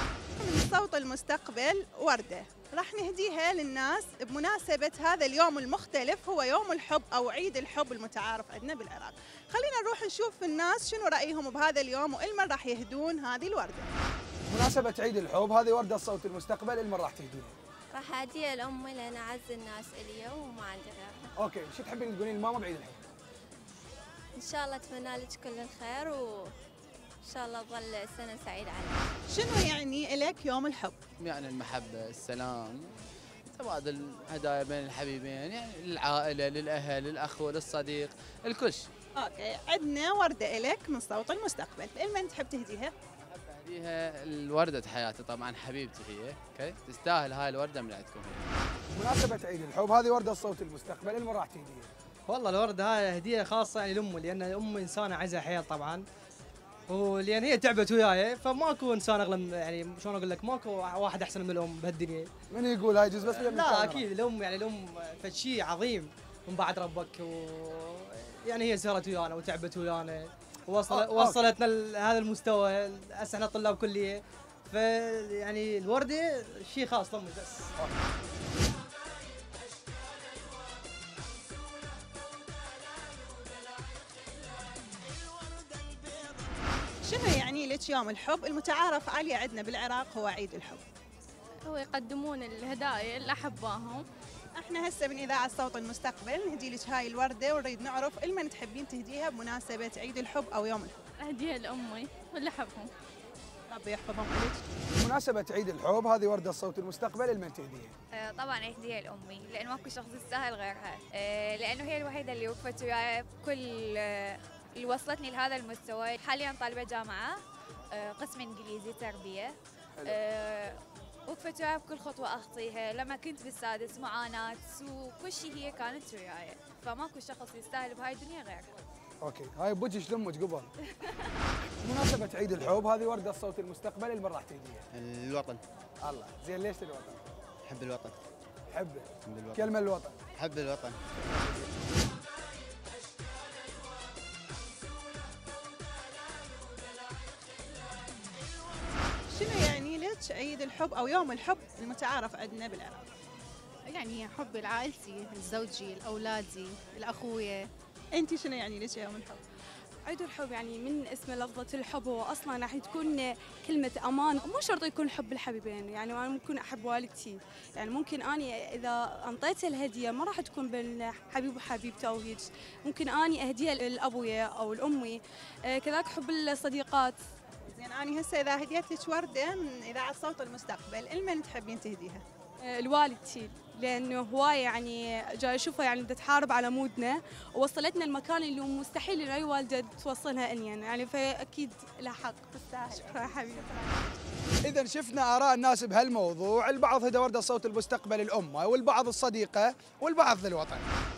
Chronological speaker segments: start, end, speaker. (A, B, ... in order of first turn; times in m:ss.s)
0:00.4-0:13.9 A
0:14.5-0:17.5 B
0:17.9-0:21.3 C
0:21.4-0:23.0 B
0:24.4-0:26.5 C
0:27.2-0:29.1 C
0:29.3-0:31.0 A
0:31.2-0:32.9 D
0:33.5-0:38.9 D
0:39.2-0:42.9 A
0:43.3-0:48.5 D
0:48.9-0:51.9 B
0:52.3-0:56.0 E
0:56.9-1:02.3 E
1:02.5-1:04.0 B
1:03.4-1:17.7 E
1:10.9-1:11.4 B
1:27.0-1:30.8 A
1:31.6-1:34.0 F
1:34.5-1:41.0 A
1:41.2-1:42.9 F
1:43.7-1:44.6 A
1:45.0-1:47.9 B
1:48.1-1:57.4 G
1:57.9-2:08.7 G
2:09.2-2:10.7 B
2:11.0-2:11.3 G
2:11.8-2:14.8 B
2:14.9-2:15.6 H
2:16.0-2:17.2 B
2:17.6-2:18.2 H
2:18.7-2:20.2 B
2:19.2-2:19.7 H
2:20.3-2:21.0 H
2:29.3-2:33.1 A
2:38.2-2:39.4 A
2:40.1-2:57.2 I
2:57.7-3:02.2 A
3:02.6-3:13.8 I
3:12.6-3:14.2 A
3:14.6-3:20.9 B